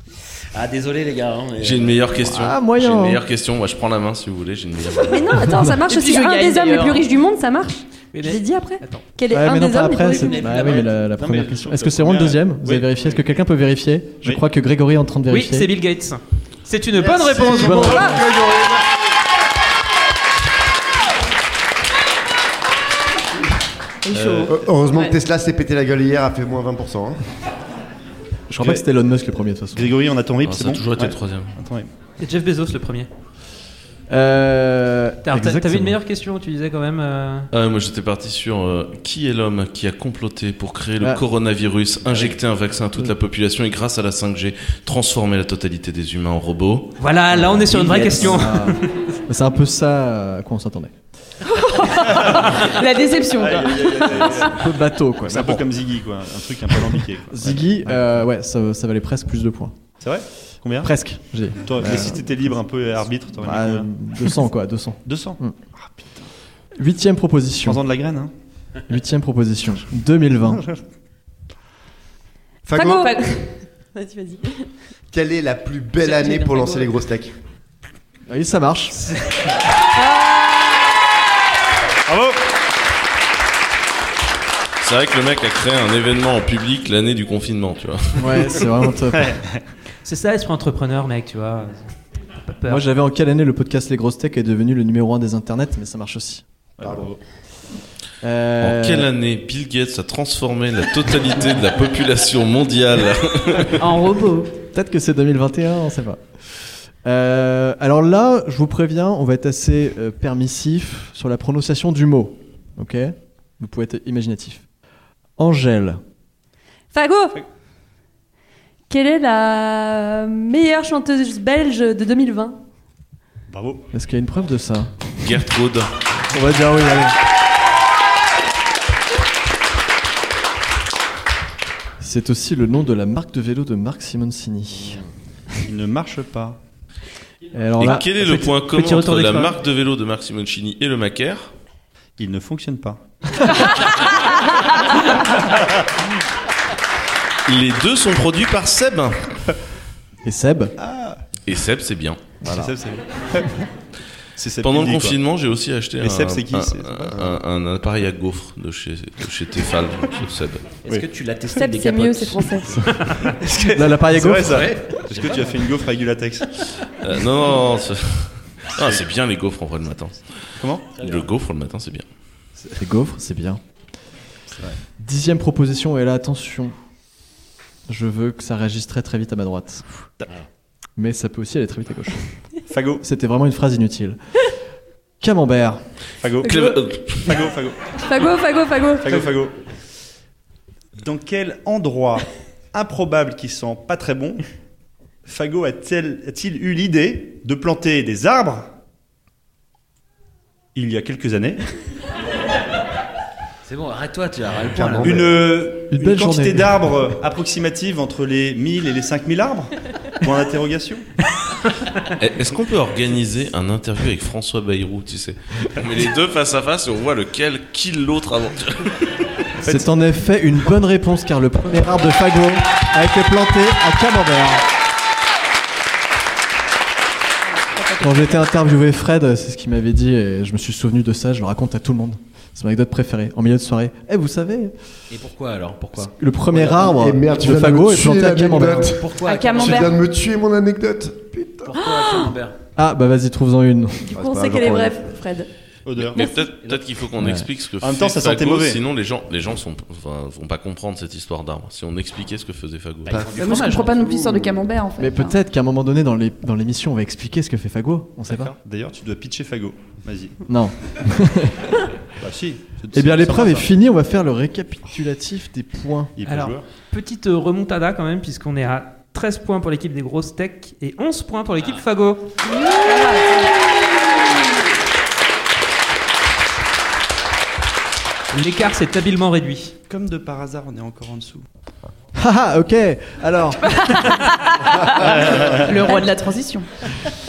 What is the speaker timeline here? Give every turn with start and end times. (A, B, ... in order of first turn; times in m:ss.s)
0:00.5-0:02.3 A
0:01.6-0:05.5 B
0:02.3-0:03.2 C
0:05.0-0:10.5 D
0:05.9-0:07.0 E
0:08.1-0:09.1 F
0:09.3-0:15.7 C
0:10.0-0:11.0 A
0:11.2-0:13.2 G
0:15.3-0:18.2 F
0:17.0-0:18.8 H
0:17.5-0:18.3 C
0:24.1-0:25.1 E
0:24.1-0:24.5 G
0:24.4-0:27.2 H
0:28.5-0:29.9 C
0:29.8-0:31.9 G
0:30.4-0:31.6 B
0:32.2-0:33.1 F
0:34.1-0:36.0 C
0:35.2-0:37.5 F
0:37.5-0:47.0 B
0:47.0-0:48.9 F
0:47.4-0:50.9 C
0:51.5-0:54.5 E
0:53.4-0:54.6 G
0:54.4-0:55.6 C
0:55.3-0:58.0 G
0:57.3-0:59.8 C
1:00.0-1:00.9 G
1:00.8-1:02.3 C
1:01.6-1:03.9 G
1:03.4-1:05.6 C
1:05.0-1:06.2 G
1:06.8-1:07.8 C
1:07.6-1:08.3 G
1:08.9-1:10.7 C
1:12.7-1:13.2 H
1:12.7-1:14.7 D
1:15.1-1:17.3 H
1:16.0-1:16.9 E
1:18.3-1:19.0 C
1:22.1-1:22.4 G
1:24.8-1:28.7 B
1:28.2-1:29.4 C
1:29.2-1:29.6 G
1:30.0-1:31.9 F
1:32.4-1:32.8 F
1:32.6-1:36.4 C
1:36.8-1:37.2 G
1:38.2-1:39.1 C
1:38.6-1:43.7 B
1:43.8-1:44.5 E
1:44.7-1:46.2 C
1:47.0-1:54.6 C
1:55.4-1:56.0 C
1:56.9-1:57.4 D
1:58.9-2:02.6 D
2:03.5-2:03.8 G
2:03.9-2:05.0 C
2:05.2-2:05.9 B
2:06.3-2:07.2 C
2:12.0-2:15.0 C
2:15.6-2:16.6 G
2:17.5-2:18.1 C
2:17.8-2:21.5 B
2:18.0-2:19.6 F
2:22.2-2:23.0 G
2:27.5-2:29.3 B
2:30.2-2:30.8 C
2:30.8-2:31.2 G
2:31.5-2:32.3 B
2:32.4-2:32.7 C
2:32.5-2:33.6 G
2:34.4-2:35.2 G
2:34.6-2:40.8 B
2:36.0-2:37.2 G
2:40.8-2:42.6 A
2:41.6-2:42.8 D
2:42.6-2:44.7 C
2:43.3-2:46.4 G
2:44.4-2:45.6 A
2:47.0-2:52.1 B
2:50.6-2:50.9 G
2:51.0-2:51.3 A
2:52.8-2:53.6 C
2:55.0-2:56.8 C
2:57.9-3:00.1 C
3:01.0-3:02.3 C
3:02.7-3:03.0 G
3:03.0-3:04.2 C
3:05.2-3:05.8 C
3:06.2-3:08.0 G
3:06.4-3:07.3 B
3:06.5-3:06.8 D
3:08.0-3:09.2 D
3:09.0-3:09.6 G
3:11.0-3:14.4 G
3:15.2-3:18.7 G
3:20.8-3:21.6 G
3:23.6-3:25.4 A
3:24.8-3:25.2 H
3:25.0-3:31.1 G
3:25.9-3:26.8 C
3:32.2-3:39.1 B
3:39.6-3:44.6 C
3:48.0-3:54.7 C
3:48.1-3:48.4 E
3:55.1-3:56.9 A
3:56.0-3:59.0 C
3:56.8-3:59.1 H
3:58.7-4:00.0 A
3:59.2-3:59.9 E
3:59.3-3:59.8 D
3:59.6-4:01.7 H
4:01.7-4:02.6 A
4:01.7-4:02.3 E
4:02.8-4:04.1 C
4:04.1-4:05.5 D
4:04.1-4:05.2 H
4:05.9-4:06.3 G
4:06.0-4:13.2 B
4:06.4-4:06.9 A
4:07.2-4:07.5 C
4:07.8-4:08.8 G
4:13.0-4:14.6 A
4:13.1-4:13.8 H
4:13.4-4:15.3 E
4:15.0-4:18.5 C
4:18.3-4:20.4 G
4:20.5-4:21.9 C
4:22.2-4:23.7 G
4:22.9-4:26.1 C
4:26.2-4:26.6 G
4:26.2-4:32.3 F
4:32.9-4:33.4 D
4:38.3-4:39.8 F
4:39.9-4:41.5 G
4:42.2-4:44.1 C
4:45.0-4:45.6 G
4:45.1-4:46.7 E